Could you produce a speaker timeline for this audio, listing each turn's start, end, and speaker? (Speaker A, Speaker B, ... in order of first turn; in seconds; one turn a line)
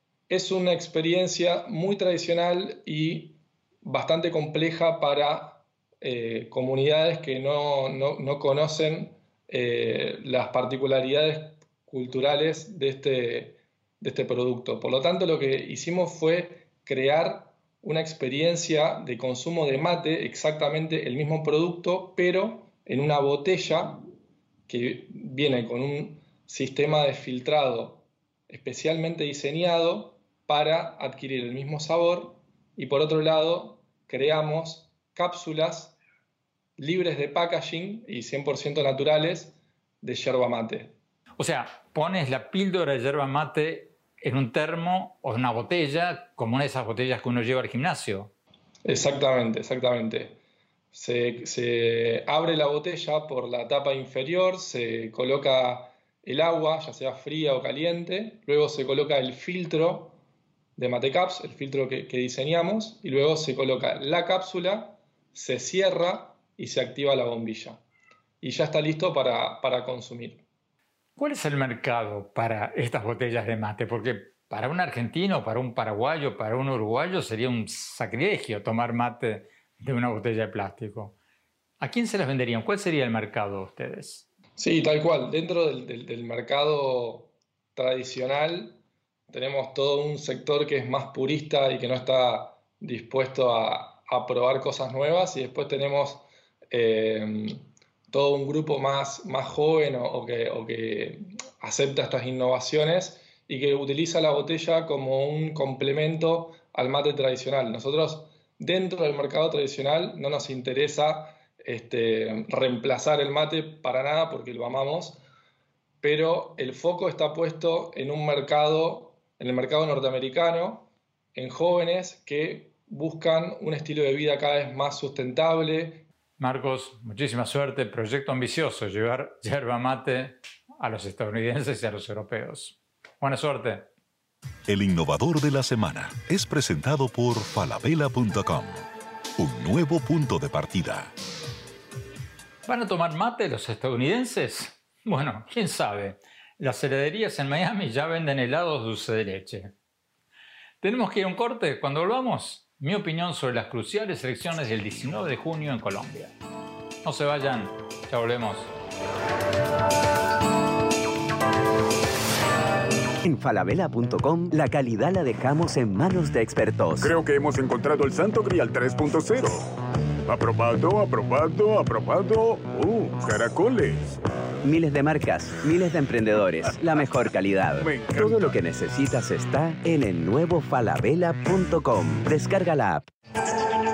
Speaker A: 0.3-24.0
Speaker A: 24.7-36.0
Speaker A: 36.8-40.9
Speaker B: 41.4-48.3
Speaker A: 48.8-50.4
Speaker A: 50.9-60.2
Speaker A: 60.8-67.8
Speaker A: 68.4-70.4
Speaker B: 71.2-81.2
Speaker B: 81.8-84.2
Speaker A: 84.6-88.8
Speaker A: 89.3-115.2
Speaker A: 116.0-126.0
Speaker B: 126.4-133.9
Speaker C: 134.7-141.1
Speaker B: 142.6-149.7
Speaker B: 150.8-156.3
Speaker B: 157.0-158.7
Speaker D: 163.2-167.1
Speaker E: 167.0-169.7
Speaker E: 170.3-174.1
Speaker D: 174.6-183.1
Speaker E: 177.8-178.6